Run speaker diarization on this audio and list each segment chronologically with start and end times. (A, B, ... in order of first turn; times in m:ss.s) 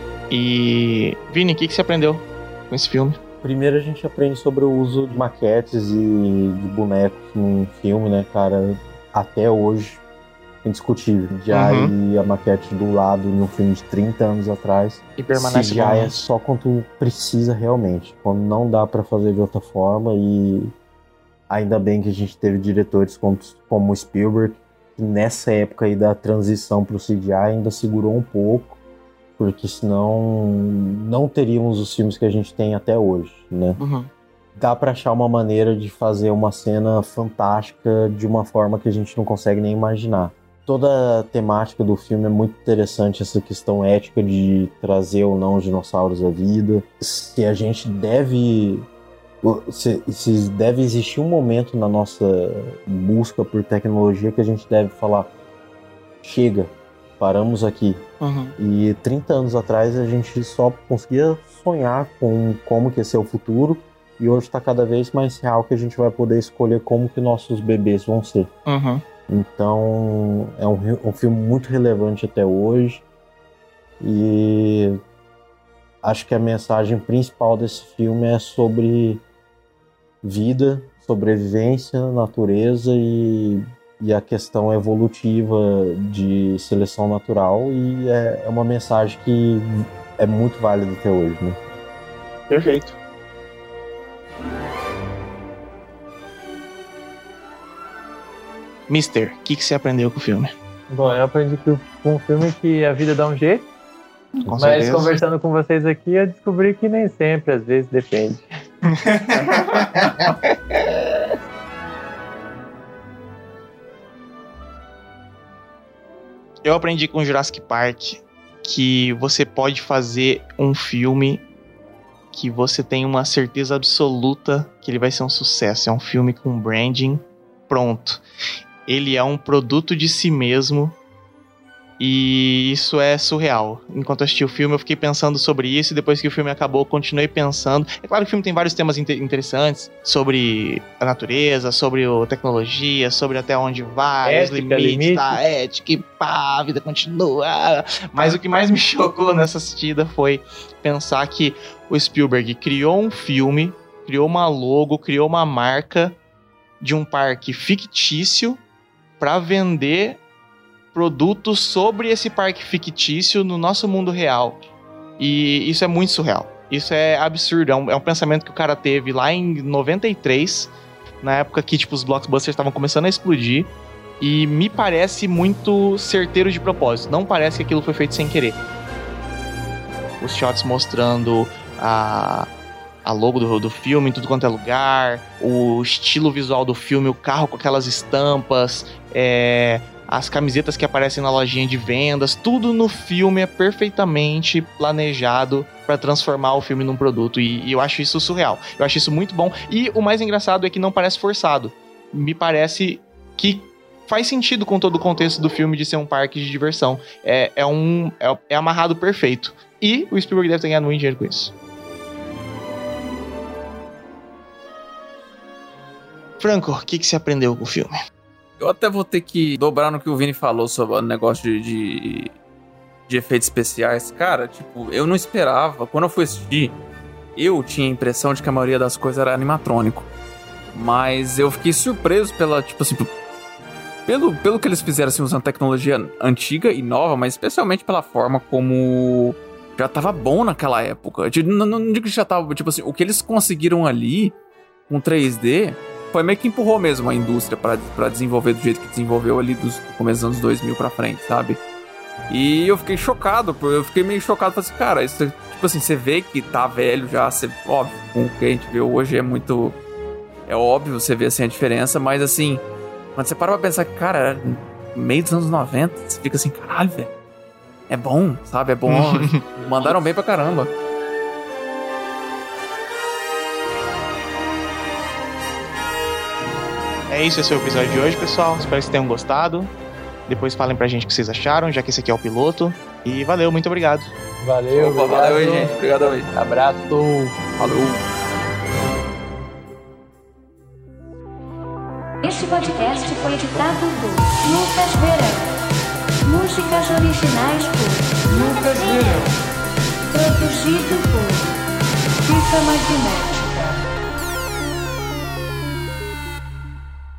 0:00.3-0:03.2 A
0:03.4-0:10.0 B
0:10.6-0:20.7 B
0:11.5-0:11.9 A
0:15.2-0:16.2 A
0:21.5-0:28.8 B
0:29.4-0:33.8 B
0:33.8-0:34.1 A
0:34.6-0:48.9 B
0:49.4-0:55.3 B
0:56.2-0:58.0 B
0:58.2-0:58.6 A
0:58.6-1:08.5 B
1:08.7-1:09.0 A
1:09.3-1:13.0 B
1:14.0-1:15.0 B
1:16.0-1:19.2 B
1:20.2-1:31.6 B
1:32.5-1:33.0 A
1:38.9-1:40.5 A
1:40.9-1:43.7 C
1:44.4-1:45.2 A
1:44.6-1:48.5 C
1:48.9-1:51.0 A
1:56.6-2:01.4 A
2:02.3-2:08.2 A
2:08.9-2:11.0 A
2:12.0-2:36.2 A
2:24.2-2:25.4 C
2:36.8-2:38.6 A
2:39.2-2:40.2 A
2:40.9-2:44.6 A
2:45.2-2:58.6 A
3:00.2-3:02.5 A
3:03.0-3:31.5 A
3:36.4-3:38.0 A
3:38.6-3:42.3 D
3:43.1-3:46.8 D
3:47.4-3:50.1 D
3:50.7-3:53.1 D
3:54.1-4:04.4 D
4:04.9-4:11.6 D
4:12.3-4:19.8 D
4:20.5-4:22.6 D
4:23.2-4:27.1 D
4:27.9-4:30.7 D
4:28.9-4:29.4 A
4:37.1-4:39.7 A
4:40.3-4:44.1 A
4:44.4-4:45.8 C
4:44.7-4:46.3 D
4:46.3-4:47.5 C
4:47.6-4:48.0 D
4:52.2-4:55.5 E
4:56.3-4:59.4 E
5:00.1-5:01.6 E
5:02.2-5:03.8 E